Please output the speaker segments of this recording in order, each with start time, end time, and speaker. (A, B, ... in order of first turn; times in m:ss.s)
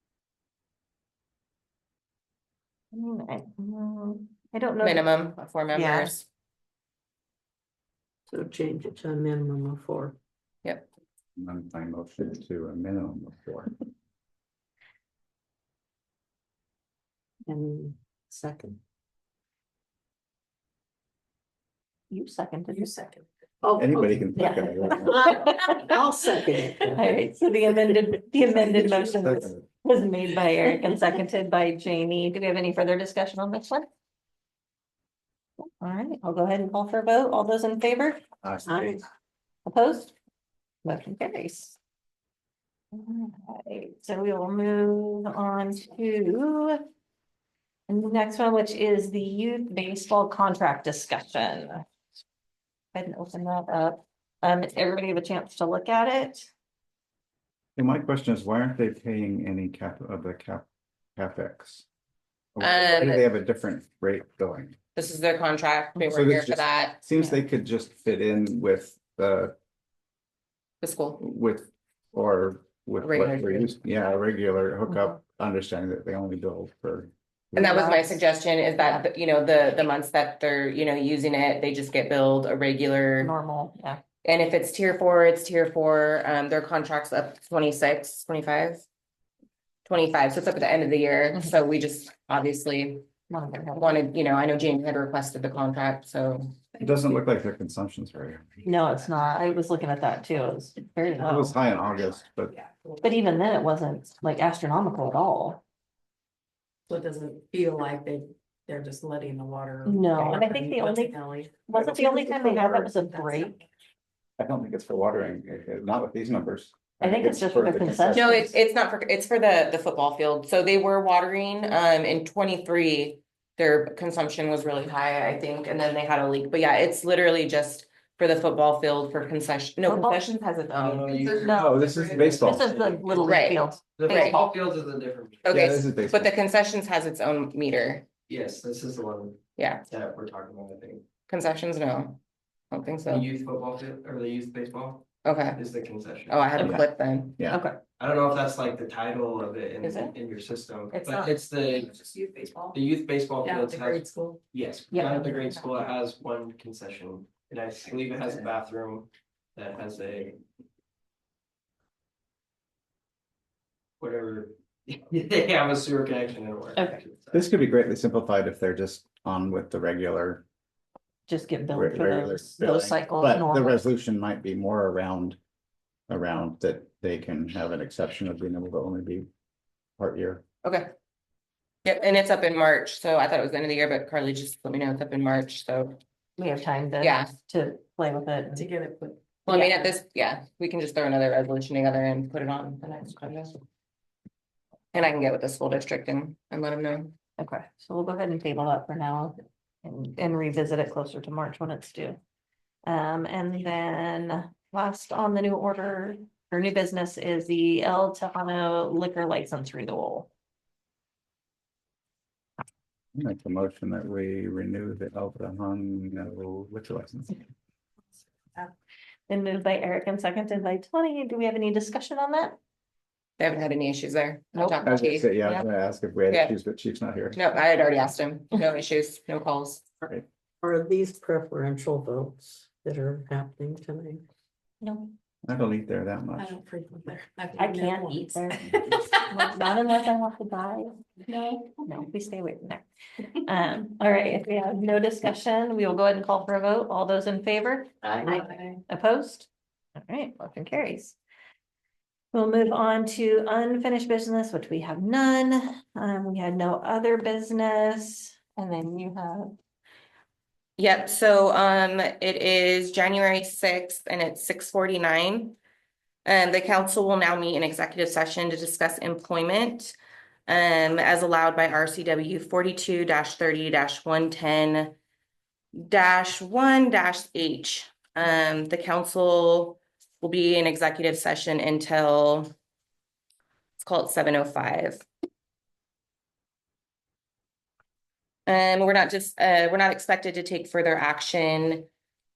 0:02.9-0:05.1 A
0:04.8-0:06.2 B
0:05.7-0:06.1 C
0:08.3-0:10.2 C
0:11.4-0:13.7 D
0:17.5-0:18.8 C
0:22.1-0:23.1 A
0:22.7-0:23.2 E
0:23.6-0:27.1 C
0:23.8-0:25.4 D
0:24.4-0:25.9 A
0:26.9-0:33.9 A
0:28.5-0:29.6 D
0:35.8-0:38.2 A
0:38.4-0:38.8 D
0:38.7-0:39.0 C
0:39.7-0:40.1 A
0:40.8-0:41.8 A
0:42.9-0:46.8 A
0:47.9-0:51.8 A
0:52.9-0:56.5 A
0:57.8-1:00.7 D
1:01.2-1:01.9 D
1:02.6-1:04.8 D
1:02.6-1:03.3 B
1:05.0-1:07.0 B
1:06.0-1:09.5 D
1:10.8-1:11.2 B
1:11.2-1:17.9 D
1:13.0-1:13.7 B
1:17.6-1:23.3 B
1:17.6-1:18.2 A
1:23.2-1:24.0 A
1:24.2-1:28.9 B
1:29.9-1:33.1 B
1:33.3-1:34.0 A
1:33.8-1:36.6 B
1:36.8-1:38.6 D
1:38.6-1:41.6 A
1:41.2-1:42.5 D
1:42.6-1:43.2 E
1:43.0-1:45.6 A
1:46.9-1:53.6 E
1:49.8-1:53.6 A
1:54.4-1:58.5 D
1:57.0-1:58.5 A
1:58.1-2:11.4 B
2:09.8-2:10.2 A
2:10.7-2:13.4 F
2:11.2-2:12.1 E
2:11.3-2:11.7 A
2:11.5-2:12.7 D
2:12.4-2:14.5 A
2:13.2-2:14.4 B
2:14.0-2:15.8 F
2:15.5-2:18.1 B
2:15.5-2:16.3 D
2:18.3-2:21.2 F
2:19.6-2:19.8 B
2:21.3-2:22.2 B
2:22.7-2:23.3 B
2:23.0-2:26.6 F
2:25.2-2:25.6 B
2:26.3-2:27.4 B
2:26.6-2:26.8 D
2:27.5-2:27.8 A
2:28.0-2:32.0 F
2:29.8-2:30.1 B
2:30.9-2:31.2 B
2:32.0-2:32.8 E
2:32.7-2:40.4 F
2:33.4-2:34.4 E
2:34.9-2:35.8 A
2:44.0-2:47.5 F
2:46.8-2:47.0 A
2:47.3-2:50.4 D
2:51.3-2:53.8 A
2:51.7-2:55.4 D
2:56.1-2:59.3 D
3:00.0-3:00.4 D
3:00.6-3:00.9 B
3:01.8-3:06.0 B
3:06.4-3:08.7 A
3:07.0-3:07.3 B
3:08.5-3:09.3 E
3:09.4-3:13.6 B
3:09.5-3:09.9 A
3:14.9-3:17.1 B
3:17.4-3:22.2 A
3:22.8-3:30.3 A
3:33.2-3:37.5 D
3:39.3-3:42.6 A
3:43.4-3:45.5 B
3:44.6-3:44.9 A
3:44.8-3:47.4 D
3:46.3-3:46.6 B
3:47.3-3:49.8 B
3:50.6-3:54.2 C
3:54.8-3:55.1 A
3:55.5-3:56.5 D
3:56.4-3:59.0 E
3:57.6-3:58.7 A
3:59.3-4:01.0 A
4:01.3-4:01.9 E
4:01.8-4:02.9 A
4:03.4-4:09.5 A
4:08.1-4:08.8 E
4:10.1-4:11.2 A
4:12.3-4:19.6 A
4:20.8-4:25.6 B
4:26.2-4:35.0 B
4:35.7-4:42.5 B
4:43.8-4:45.1 B
4:48.5-4:51.9 B